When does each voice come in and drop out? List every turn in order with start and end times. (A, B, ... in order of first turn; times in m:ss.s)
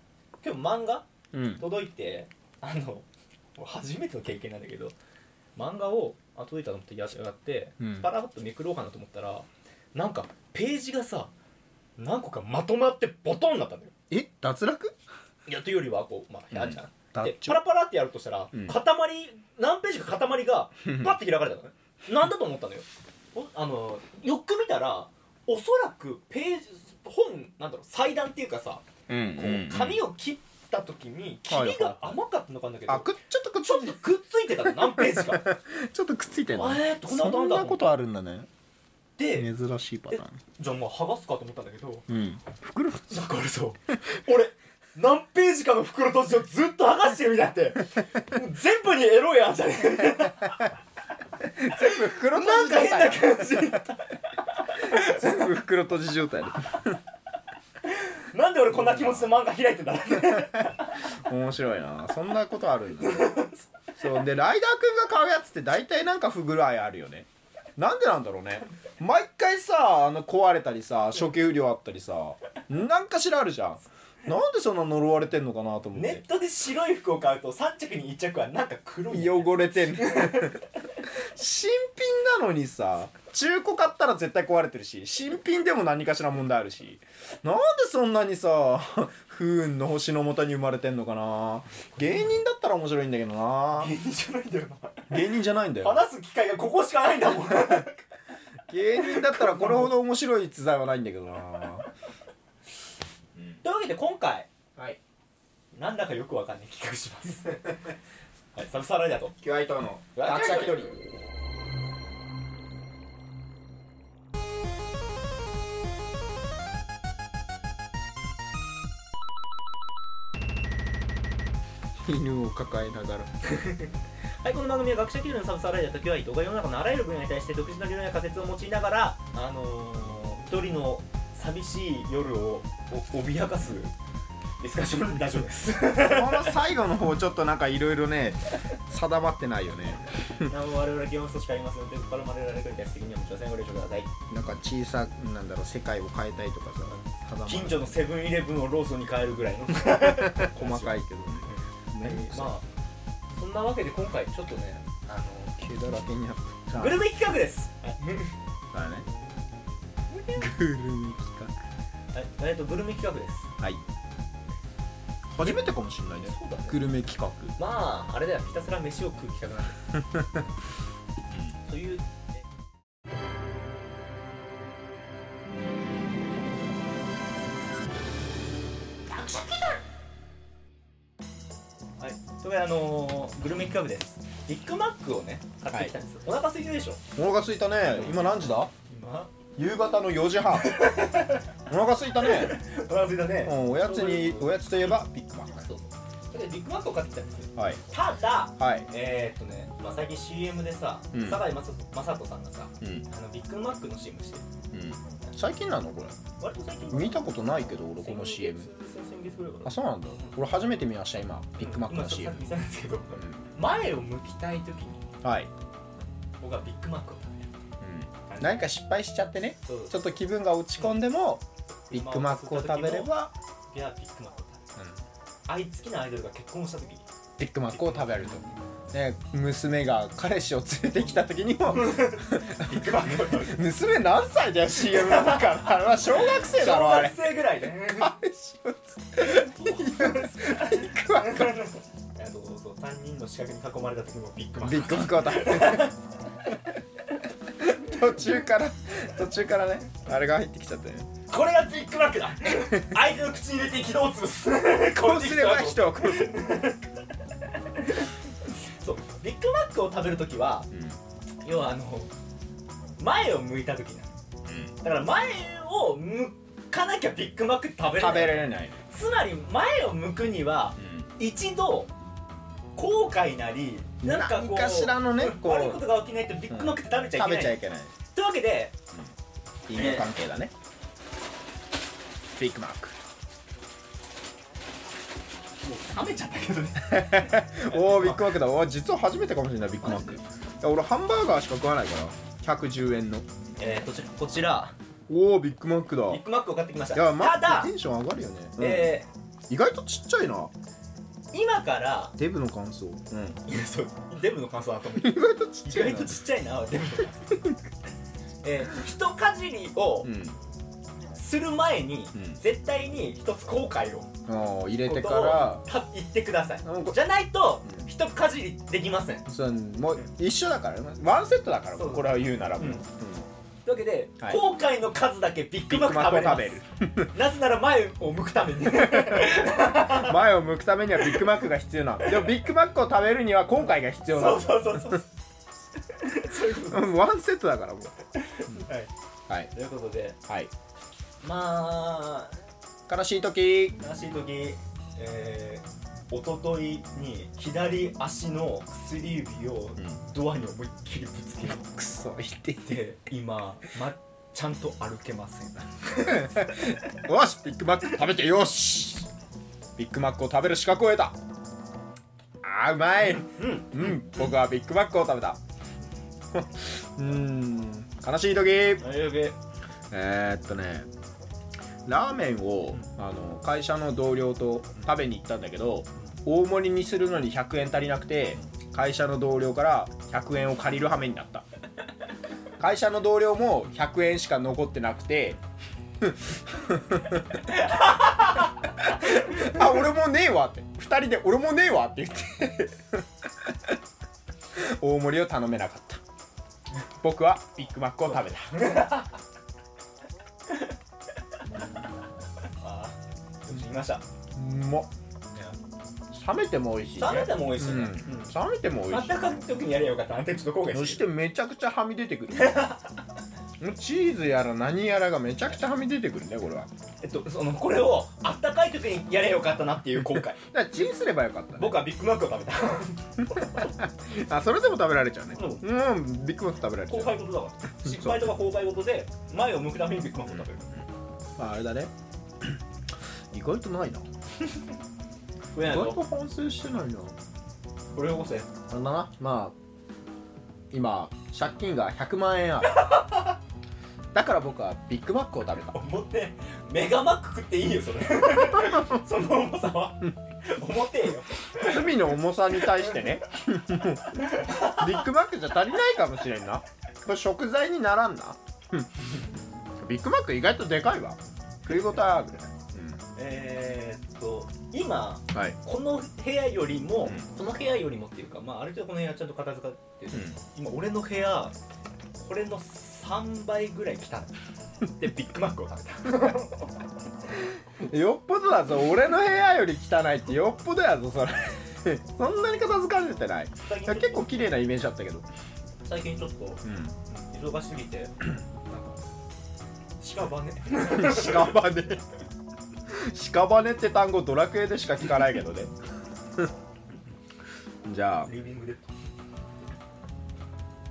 0:00.4-0:01.0 A
0:01.3-0:01.6 B
0:01.6-0:04.9 A
0:05.6-0:11.3 A
0:07.8-0:08.1 B
0:12.0-0:13.9 A
0:14.1-0:15.0 B
0:15.4-0:33.1 A
0:16.5-0:17.6 B
0:18.5-0:18.8 B
0:20.8-0:21.2 B
0:29.1-0:30.0 B
0:31.5-0:32.2 B
0:32.9-0:34.0 B
0:33.6-0:35.5 A
0:34.6-0:38.5 B
0:36.5-0:37.8 A
0:39.2-0:39.5 A
0:39.3-0:40.4 B
0:40.1-0:42.1 A
0:42.1-0:43.2 B
0:43.1-0:50.7 A
0:51.4-0:53.8 B
0:51.7-0:55.3 A
0:54.9-0:57.0 B
0:57.8-1:00.9 A
0:58.8-0:59.3 B
1:01.1-1:16.2 B
1:03.0-1:03.6 A
1:16.0-1:20.6 A
1:19.1-1:20.6 B
1:21.1-1:33.9 B
1:33.7-1:35.2 A
1:35.1-1:36.0 B
1:35.8-1:38.0 A
1:37.5-1:37.8 B
1:38.7-1:41.9 B
1:39.0-1:39.9 A
1:43.6-1:44.5 A
1:45.7-1:47.8 A
1:48.5-1:49.4 A
1:49.4-1:51.0 B
1:50.2-1:50.8 A
2:02.0-2:03.3 B
2:03.4-2:03.9 A
2:04.4-2:13.9 A
2:14.6-2:16.6 A
2:15.9-2:20.5 B
2:20.4-2:24.1 A
2:24.3-2:28.0 B
2:26.9-2:32.6 A
2:29.9-2:32.5 B
2:33.3-2:35.6 A
2:35.6-2:37.0 B
2:36.8-2:38.3 A
2:38.7-2:39.0 B
2:40.1-2:40.5 A
2:40.4-2:41.5 B
2:42.1-2:43.5 A
2:45.3-2:47.5 B
2:46.2-2:46.8 A
2:47.6-2:50.0 A
2:51.6-2:52.1 A
2:59.1-2:59.8 A
3:02.0-3:07.0 A
3:07.2-3:08.7 B
3:07.9-3:09.3 A
3:09.6-3:11.0 B
3:10.5-3:11.6 A
3:11.7-3:12.6 B
3:12.2-3:14.6 A
3:13.4-3:15.7 B
3:15.6-3:24.5 A
3:17.6-3:17.8 B
3:18.6-3:18.9 B
3:21.1-3:21.4 B
3:24.7-3:26.1 B
3:26.4-3:27.3 A
3:26.9-3:28.7 B
3:28.0-3:30.4 A
3:29.6-3:32.4 B
3:31.6-3:35.0 A
3:33.2-3:33.4 B
3:35.2-3:35.5 B
3:36.4-3:37.5 A
3:37.8-3:43.3 B
3:38.3-3:38.7 A
3:39.6-3:40.1 A
3:41.7-3:43.1 A
3:43.7-3:44.7 A
3:45.5-3:47.1 A
3:47.4-3:57.4 B
3:47.7-3:48.6 A
3:51.7-3:53.6 A
3:54.9-3:58.2 A
3:58.0-4:01.6 B
3:59.2-4:06.0 A
4:04.6-4:05.9 B
4:07.6-4:11.1 B
4:11.3-4:16.9 A
4:14.8-4:16.5 B
4:17.8-4:20.7 A
4:20.7-4:21.0 B
4:21.4-4:22.1 A
4:23.0-4:24.1 A
4:24.4-4:24.7 B
4:24.8-4:31.9 A
4:27.9-4:28.8 B
4:30.8-4:31.1 B
4:32.8-4:37.6 A
4:34.0-4:36.0 B
4:36.5-4:37.9 B
4:38.1-4:38.8 A
4:39.7-4:40.5 B
4:39.8-4:40.1 A
4:42.4-4:43.0 B
4:45.6-4:48.3 A
4:46.8-4:53.2 B
4:49.8-4:50.2 A
4:53.6-4:54.7 A
4:55.1-4:56.2 B
4:56.0-4:57.7 A
4:56.9-5:00.5 B
4:58.6-4:59.1 A
5:01.3-5:02.1 A
5:02.2-5:03.4 B
5:03.4-5:07.4 A
5:04.9-5:06.2 B
5:07.3-5:07.6 B
5:08.4-5:10.1 A
5:10.0-5:10.4 B
5:11.1-5:14.1 A
5:12.1-5:12.4 B
5:14.2-5:15.6 B
5:14.8-5:19.3 A
5:16.6-5:17.0 B
5:17.6-5:17.9 B
5:19.2-5:23.3 B
5:21.7-5:22.8 A
5:23.6-5:30.2 A
5:25.7-5:27.1 B
5:28.7-5:35.0 B
5:34.1-5:35.1 A
5:35.9-5:37.0 A
5:36.7-5:37.9 B
5:38.2-5:38.9 A
5:39.5-5:40.2 A
5:41.2-5:42.4 A
5:42.9-5:43.8 B
5:43.8-5:51.6 A
5:51.6-5:52.8 B
5:52.6-5:56.7 A
5:56.0-5:59.1 B
5:59.8-6:01.2 B
6:02.4-6:05.4 B
6:03.2-6:04.0 A
6:06.3-6:08.9 B
6:08.8-6:09.4 A
6:09.9-6:10.9 B
6:11.8-6:21.4 B
6:22.6-6:25.4 B
6:26.0-6:33.8 B
6:27.6-6:28.5 A
6:34.5-6:36.0 B
6:37.0-6:38.9 B
6:38.5-6:39.1 A
6:42.6-6:44.0 A
6:44.4-6:44.9 B
6:46.1-6:49.4 B
6:47.0-6:48.4 A
6:48.9-6:51.0 A
6:50.7-6:52.7 B
6:52.3-6:52.9 A
6:53.6-6:56.7 B
6:57.0-7:00.4 A
7:00.0-7:01.9 B
7:01.6-7:03.7 A
7:03.3-7:07.2 B
7:05.3-7:05.6 A
7:06.9-7:10.7 A
7:07.8-7:08.4 B
7:11.4-7:12.6 B
7:13.3-7:14.1 B
7:15.5-7:16.0 A
7:15.6-7:17.2 B
7:17.9-7:18.5 A
7:18.7-7:19.5 B
7:20.7-7:22.8 B
7:22.8-7:23.3 A
7:24.1-7:25.8 B
7:25.7-7:32.1 A
7:28.6-7:28.9 B
7:31.5-7:38.9 B
7:34.1-7:35.0 A
7:39.8-7:43.0 B
7:43.2-7:51.5 A
7:45.3-7:45.6 B
7:50.1-7:50.4 B
7:52.2-7:54.3 A
7:54.8-7:56.7 A
7:57.5-8:05.2 B
8:03.6-8:04.3 A
8:05.8-8:09.0 A
8:06.6-8:06.9 B
8:10.0-8:11.6 A
8:10.8-8:12.0 B
8:12.9-8:15.7 B
8:17.8-8:18.3 B
8:18.2-8:18.9 A